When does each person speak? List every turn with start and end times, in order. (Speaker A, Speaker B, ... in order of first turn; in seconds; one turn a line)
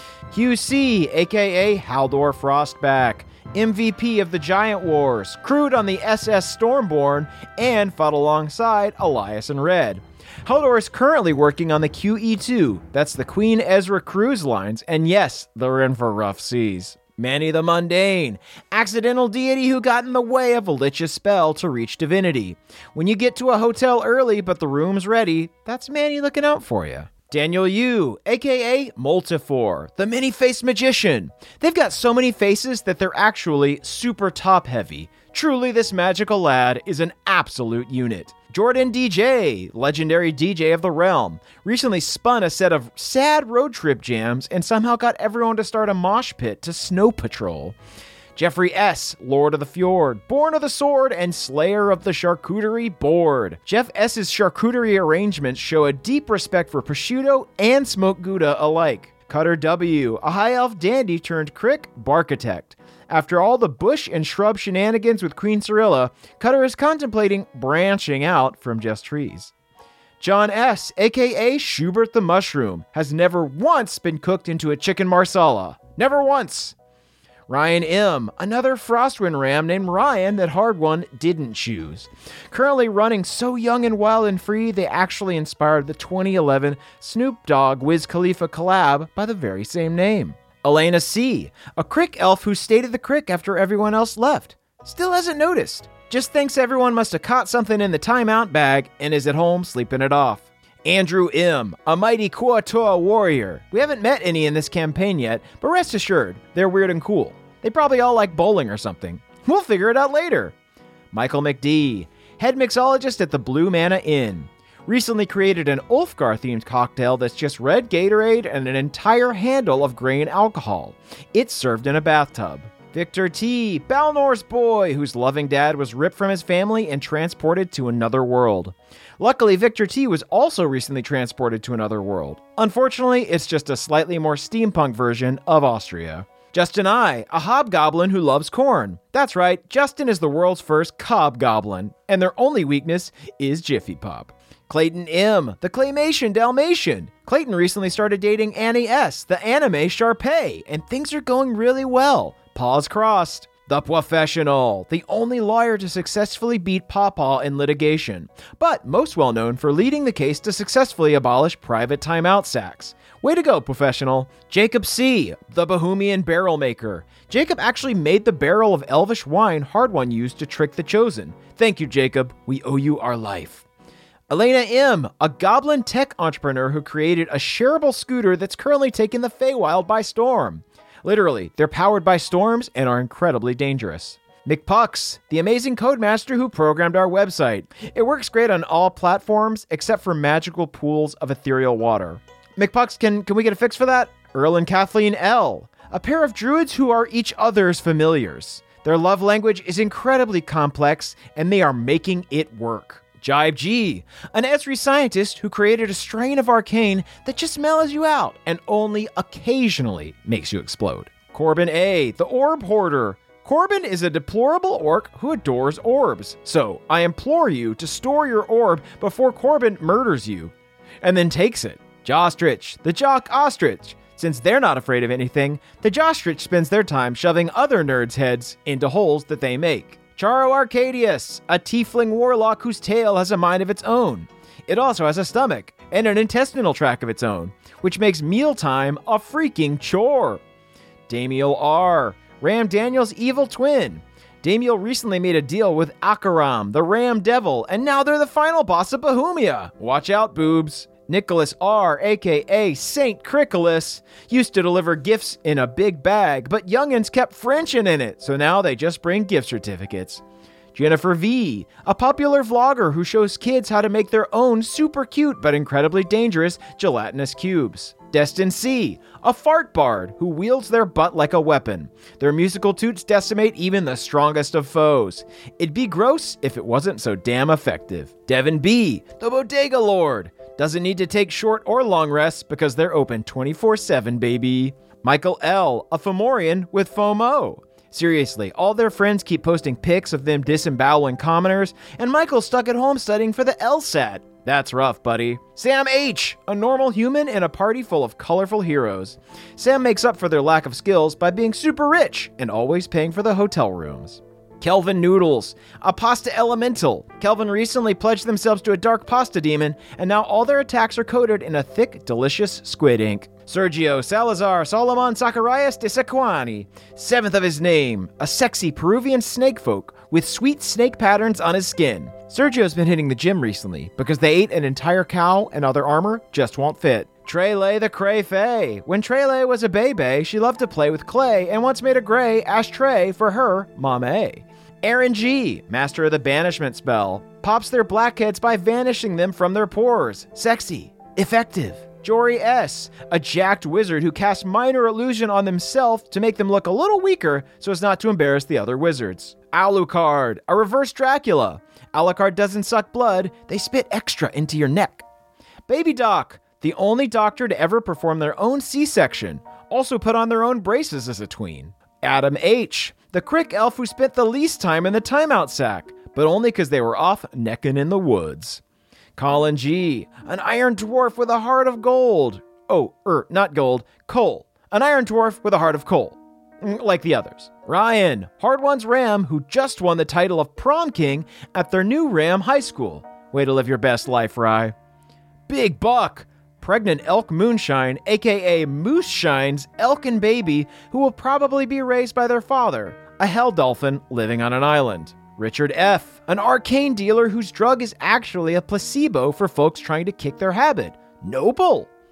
Speaker A: 0.3-47.8
Speaker A: 48.3-69.5
Speaker A: 70.2-76.7
Speaker A: 77.5-110.5
Speaker A: 111.1-173.6
Speaker A: 174.3-240.4
Speaker A: 241.1-260.2
Speaker A: 260.7-355.0
Speaker A: 355.7-368.6
Speaker A: 369.1-384.7
Speaker A: 385.5-401.9